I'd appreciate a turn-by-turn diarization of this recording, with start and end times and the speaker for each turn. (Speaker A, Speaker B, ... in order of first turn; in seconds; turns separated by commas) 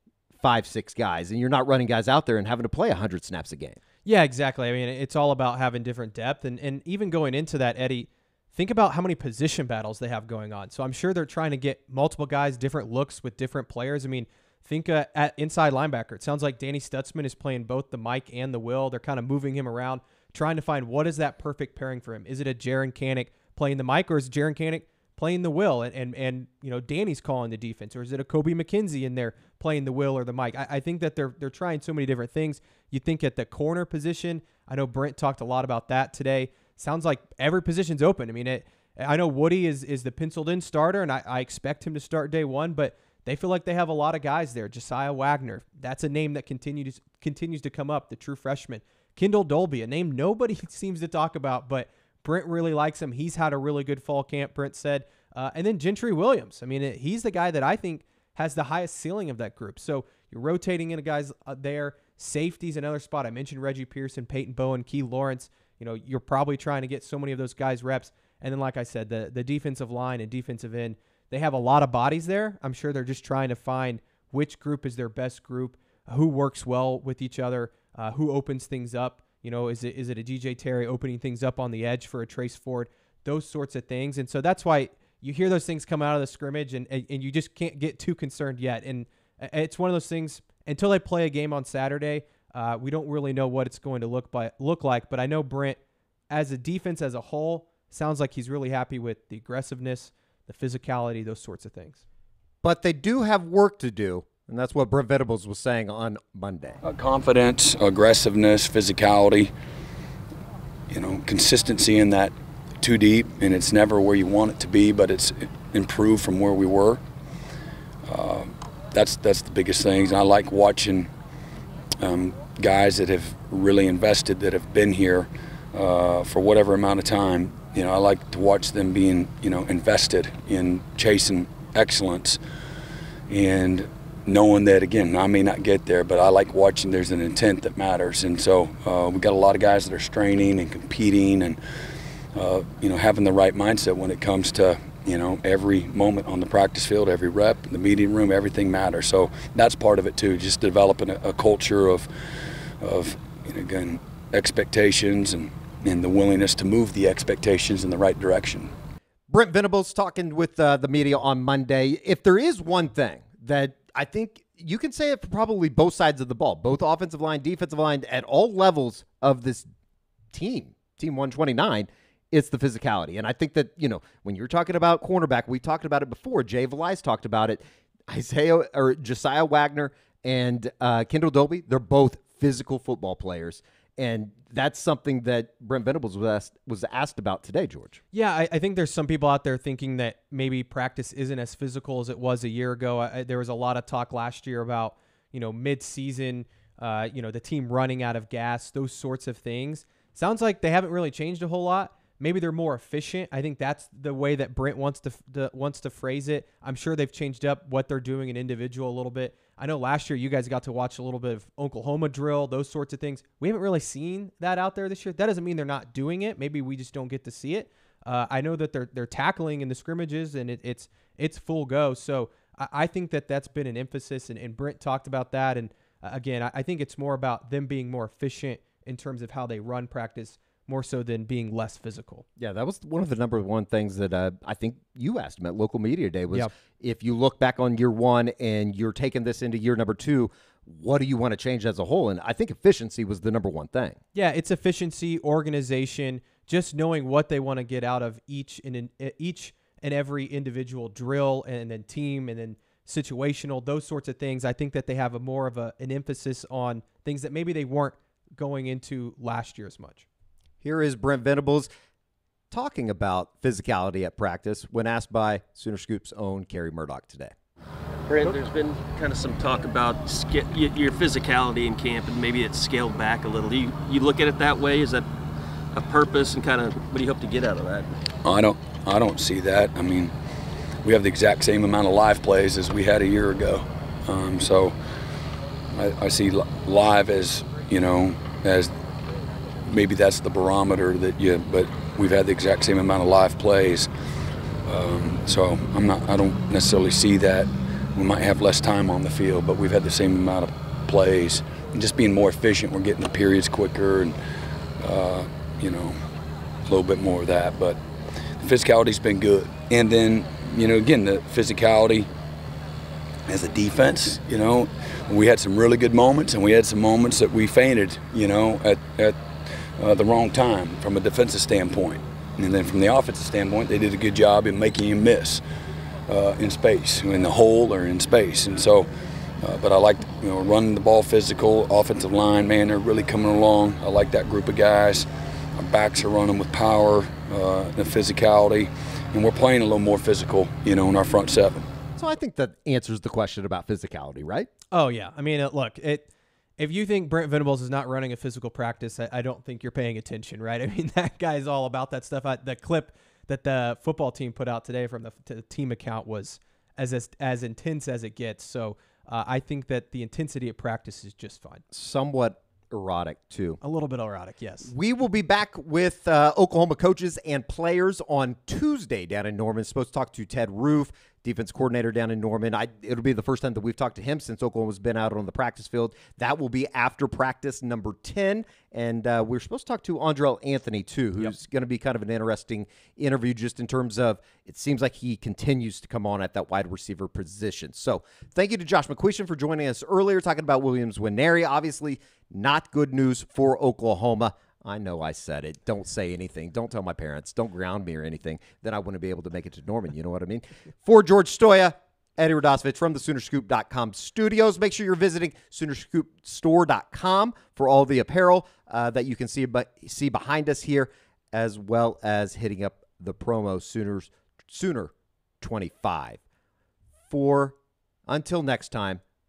Speaker A: 0.4-3.8, Speaker B: 4.0-95.8, Speaker B: 96.3-102.0, Speaker A: 102.6-106.8, Speaker C: 106.8-109.5, Speaker C: 110.9-117.0, Speaker C: 118.0-121.1, Speaker C: 122.0-132.4, Speaker C: 133.3-141.6, Speaker C: 142.3-152.1, Speaker C: 152.8-158.7, Speaker A: 159.3-169.7, Speaker A: 170.3-188.0, Speaker B: 188.1-232.2, Speaker A: 232.4-244.0, Speaker B: 244.1-260.1, Speaker A: 260.6-261.7, Speaker A: 262.5-267.3, Speaker D: 268.1-275.0, Speaker D: 275.7-277.9, Speaker C: 278.2-280.1, Speaker C: 280.8-284.7, Speaker C: 285.7-288.7, Speaker C: 289.6-293.9, Speaker C: 294.6-304.1, Speaker C: 304.8-306.0, Speaker C: 306.7-307.8, Speaker C: 308.4-312.1, Speaker C: 313.2-319.2, Speaker C: 319.8-325.4, Speaker C: 326.1-328.9, Speaker C: 329.4-341.7, Speaker A: 341.9-344.5, Speaker B: 344.7-361.6, Speaker A: 361.7-363.6, Speaker B: 363.6-364.7, Speaker A: 364.6-416.2, Speaker A: 417.1-419.0